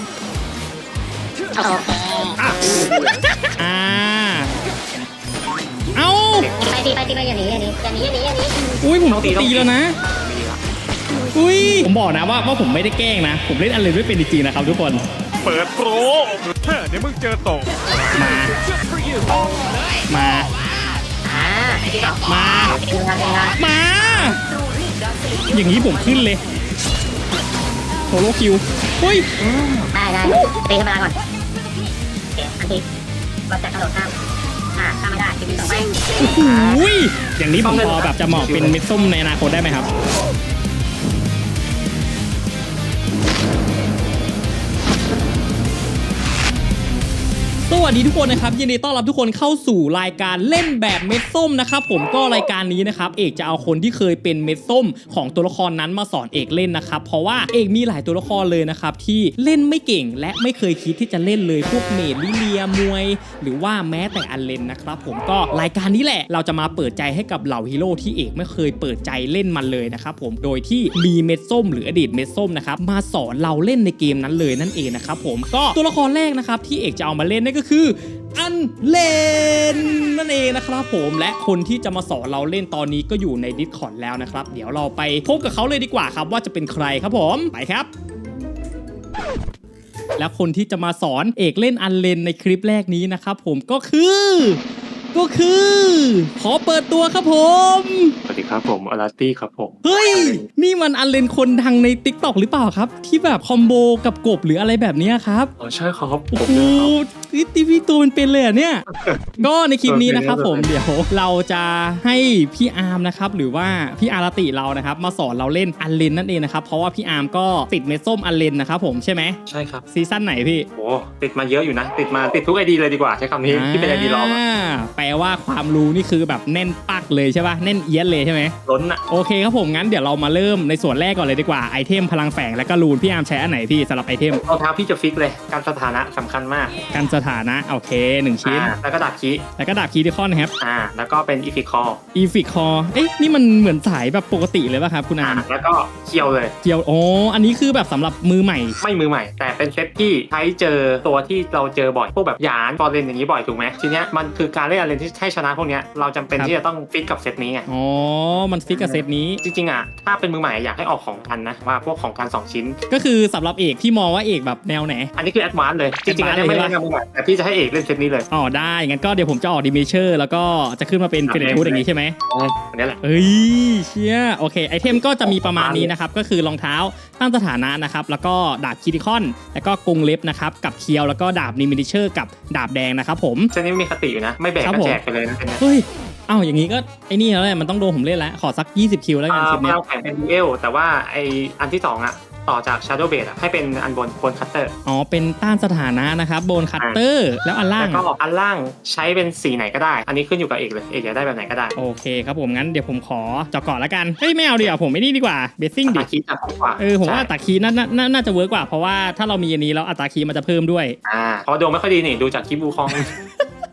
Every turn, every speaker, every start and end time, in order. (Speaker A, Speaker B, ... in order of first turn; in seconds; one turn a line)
Speaker A: 1.6-3.1
Speaker B: 3.6-4.5
Speaker B: 5.9-6.5
Speaker A: 6.4-8.7
Speaker B: 8.8-9.9
Speaker C: 9.1-10.6
Speaker B: 11.3-15.0
Speaker D: 15.4-18.2
Speaker B: 18.1-18.5
Speaker B: 20.1-20.5
Speaker A: 21.2-23.6
Speaker B: 22.2-22.8
Speaker B: 23.6-24.4
Speaker B: 25.5-26.4
Speaker B: 28.1-29.3
Speaker C: 29.4-29.8
Speaker A: 29.9-31.1
Speaker A: 32.4-32.8
Speaker A: 33.5-34.1
Speaker A: 34.8-36.8
Speaker B: 36.2-39.9
Speaker C: 37.6-38.8
Speaker B: 47.7-87.9
Speaker B: 90.2-94.6
Speaker B: 95.1-98.2
Speaker C: 98.3-100.5
Speaker B: 99.8-105.5
Speaker C: 105.6-106.9
Speaker B: 106.3-108.8
Speaker C: 108.9-110.7
Speaker B: 109.4-119.4
Speaker C: 119.5-119.8
Speaker B: 119.9-120.7
Speaker C: 120.7-124.4
Speaker B: 123.5-128.5
Speaker C: 128.7-129.0
Speaker B: 129.1-134.4
Speaker C: 134.3-136.8
Speaker B: 136.9-138.7
Speaker C: 138.4-139.4
Speaker B: 139.6-140.5
Speaker C: 140.6-142.0
Speaker B: 142.1-145.4
Speaker C: 145.2-146.5
Speaker B: 146.6-148.8
Speaker C: 148.8-157.7
Speaker B: 157.7-159.4
Speaker C: 158.7-162.8
Speaker B: 162.9-165.1
Speaker C: 165.2-168.3
Speaker B: 166.1-166.7
Speaker B: 168.3-172.2
Speaker C: 171.3-173.0
Speaker B: 173.0-183.5
Speaker C: 175.2-175.9
Speaker C: 183.5-185.6
Speaker B: 184.6-185.0
Speaker B: 185.6-189.8
Speaker C: 189.3-194.7
Speaker B: 194.8-198.0
Speaker C: 197.8-201.7
Speaker B: 201.8-206.1
Speaker C: 205.9-207.3
Speaker B: 206.8-210.9
Speaker C: 211.0-213.1
Speaker B: 212.9-213.4